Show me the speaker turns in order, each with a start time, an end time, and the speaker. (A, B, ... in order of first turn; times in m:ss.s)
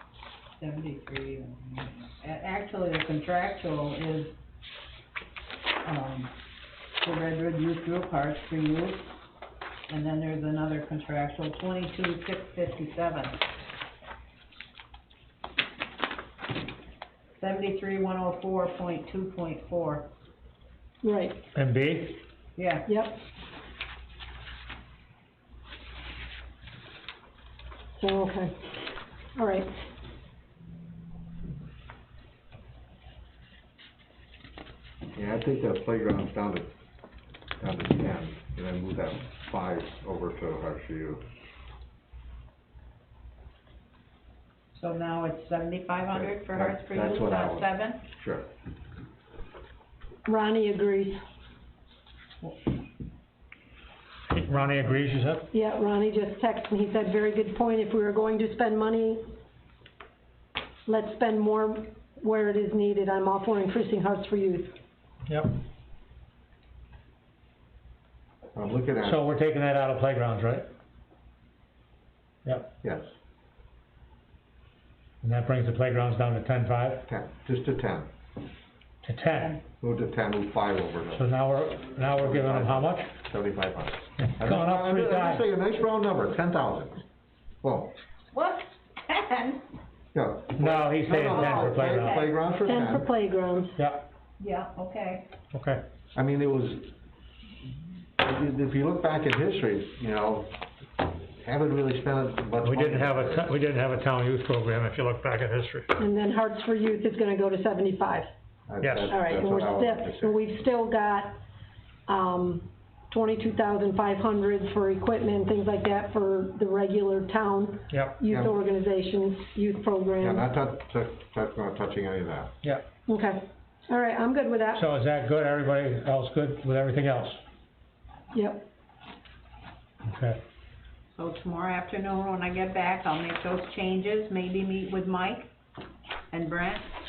0:00.6-0:04.4 A
0:05.8-0:06.3 A
0:07.0-0:09.1 A
0:09.9-0:13.4 A
0:17.4-0:20.1 A
0:21.0-0:21.4 B
0:21.6-0:22.2 C
0:22.6-0:22.9 A
0:22.9-0:23.2 B
0:28.0-0:28.5 B
0:29.4-0:29.7 B
0:35.2-0:36.7 D
0:37.6-0:41.2 D
0:44.7-0:48.0 A
0:46.1-0:48.5 D
0:50.3-0:51.2 B
0:54.3-0:55.5 C
0:55.5-0:59.2 B
1:00.9-1:04.8 B
1:05.3-1:05.6 C
1:08.6-1:09.2 D
1:09.0-1:10.7 C
1:12.4-1:12.7 C
1:12.8-1:13.1 D
1:15.2-1:17.1 C
1:17.1-1:18.1 D
1:19.0-1:19.6 C
1:19.4-1:19.6 A
1:19.8-1:21.3 D
1:21.2-1:23.1 C
1:22.2-1:27.0 D
1:24.2-1:25.4 C
1:27.6-1:27.9 D
1:28.3-1:29.6 A
1:30.1-1:33.1 D
1:30.6-1:32.2 C
1:31.1-1:32.3 A
1:32.6-1:33.8 B
1:33.8-1:34.0 C
1:34.4-1:35.3 A
1:35.5-1:35.8 C
1:36.1-1:36.9 D
1:38.2-1:40.5 D
1:41.4-1:43.5 D
1:42.6-1:45.9 C
1:46.0-1:48.3 B
1:48.7-1:50.4 D
1:48.8-1:49.1 C
1:49.1-1:51.4 B
1:52.1-2:00.5 B
1:57.9-1:58.2 C
1:58.3-1:58.6 D
2:00.2-2:02.5 D
2:03.1-2:04.8 B
2:04.7-2:07.4 C
2:08.3-2:08.6 B
2:10.1-2:10.4 C
2:11.1-2:15.5 A
2:16.3-2:16.9 A